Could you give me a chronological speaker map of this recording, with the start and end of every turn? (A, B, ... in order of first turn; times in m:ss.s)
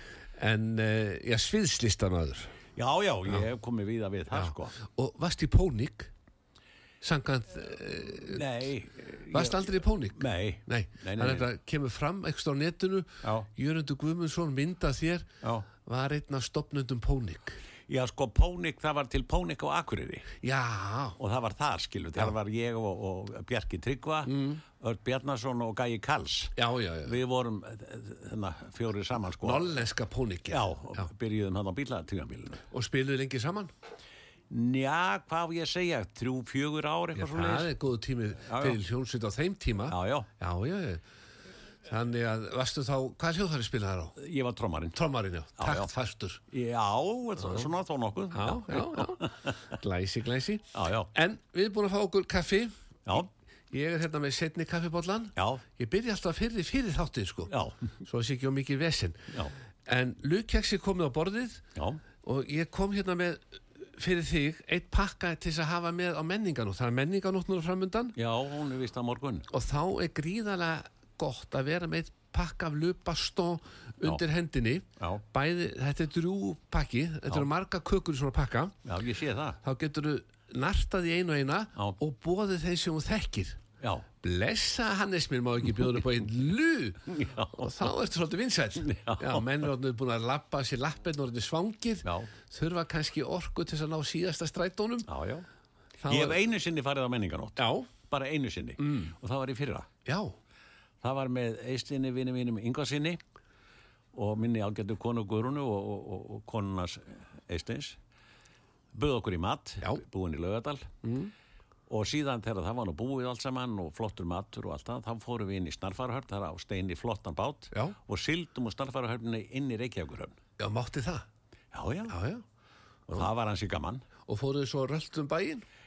0:00.4-0:02.6 A
0:02.8-0:04.7 B
0:04.3-0:06.1 A
0:07.0-0:08.4 A
0:08.3-0:11.5 B
0:09.3-0:17.6 A
0:15.4-0:15.7 B
0:17.9-0:20.3 B
0:20.4-0:21.2 A
0:21.2-0:29.7 B
0:24.3-0:24.6 A
0:26.6-0:27.2 A
0:29.4-0:31.1 A
0:30.5-0:32.6 B
0:32.7-0:33.7 A
0:34.5-0:37.7 B
0:37.2-0:41.0 A
0:38.5-0:38.8 B
0:39.9-0:40.3 B
0:41.9-0:44.2 A
0:44.2-0:45.0 B
0:44.9-0:46.4 A
0:45.6-0:45.9 B
0:46.5-0:49.7 B
0:47.4-0:47.7 A
0:48.3-0:59.3 A
0:50.7-0:51.1 B
0:55.4-0:55.6 B
0:57.5-0:57.9 B
0:59.9-1:01.6 A
1:01.8-1:02.0 B
1:02.2-1:08.2 A
1:08.2-1:09.5 B
1:09.5-1:18.8 A
1:18.8-1:19.6 B
1:19.6-1:23.6 A
1:24.2-1:35.1 A
1:27.1-1:27.9 B
1:28.8-1:29.5 B
1:32.0-1:32.3 B
1:35.1-1:35.5 B
1:36.0-1:36.4 A
1:36.1-1:39.9 B
1:37.6-1:37.9 A
1:38.8-1:39.1 A
1:40.0-1:40.3 A
1:41.0-1:43.2 B
1:44.1-1:48.0 B
1:48.9-1:50.9 B
1:51.0-1:51.3 A
1:51.9-2:00.4 B
2:00.6-2:01.3 A
2:01.7-2:02.2 B
2:02.1-2:02.4 A
2:03.1-2:04.0 B
2:04.3-2:05.6 A